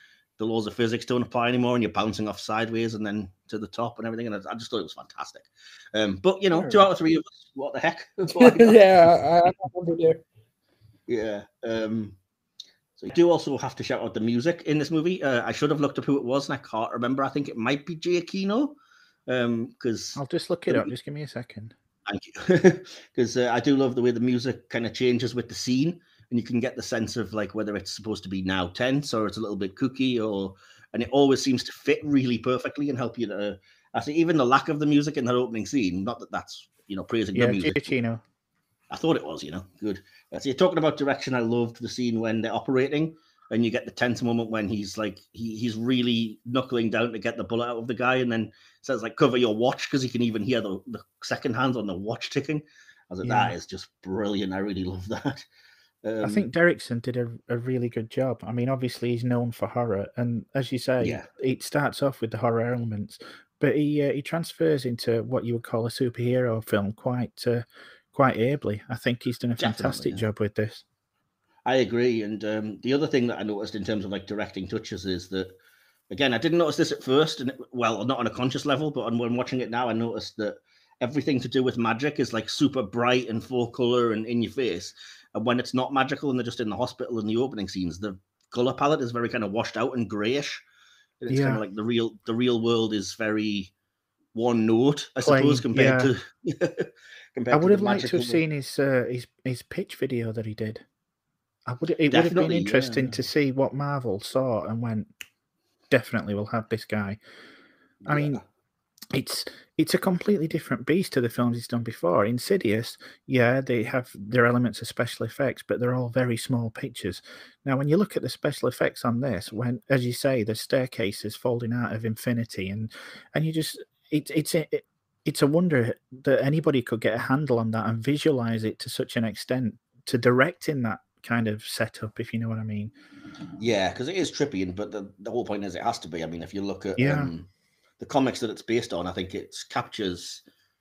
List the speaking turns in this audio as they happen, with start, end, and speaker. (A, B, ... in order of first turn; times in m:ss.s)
0:00.4-0:08.8 A
0:06.6-0:06.9 B
0:08.3-0:10.2 B
0:11.1-0:12.2 A
0:13.0-0:18.8 A
0:19.3-0:20.9 A
0:20.2-0:21.7 C
0:22.0-0:37.9 A
0:37.3-0:38.2 C
0:38.9-0:55.4 A
0:53.2-0:53.6 C
0:56.0-0:56.4 A
0:56.2-1:10.8 C
1:09.6-1:10.2 A
1:11.6-1:15.5 A
1:16.1-1:30.6 A
1:31.2-1:33.7 A
1:31.3-1:31.6 C
1:34.3-1:38.4 A
1:35.2-1:36.1 C
1:37.5-1:40.8 C
1:41.6-1:45.1 C
1:42.1-1:43.2 A
1:45.9-1:47.2 C
1:48.0-1:48.4 A
1:48.1-1:48.4 C
1:49.1-2:12.9 C
2:13.6-2:17.4 A
2:17.0-2:17.3 C
2:18.0-2:20.4 A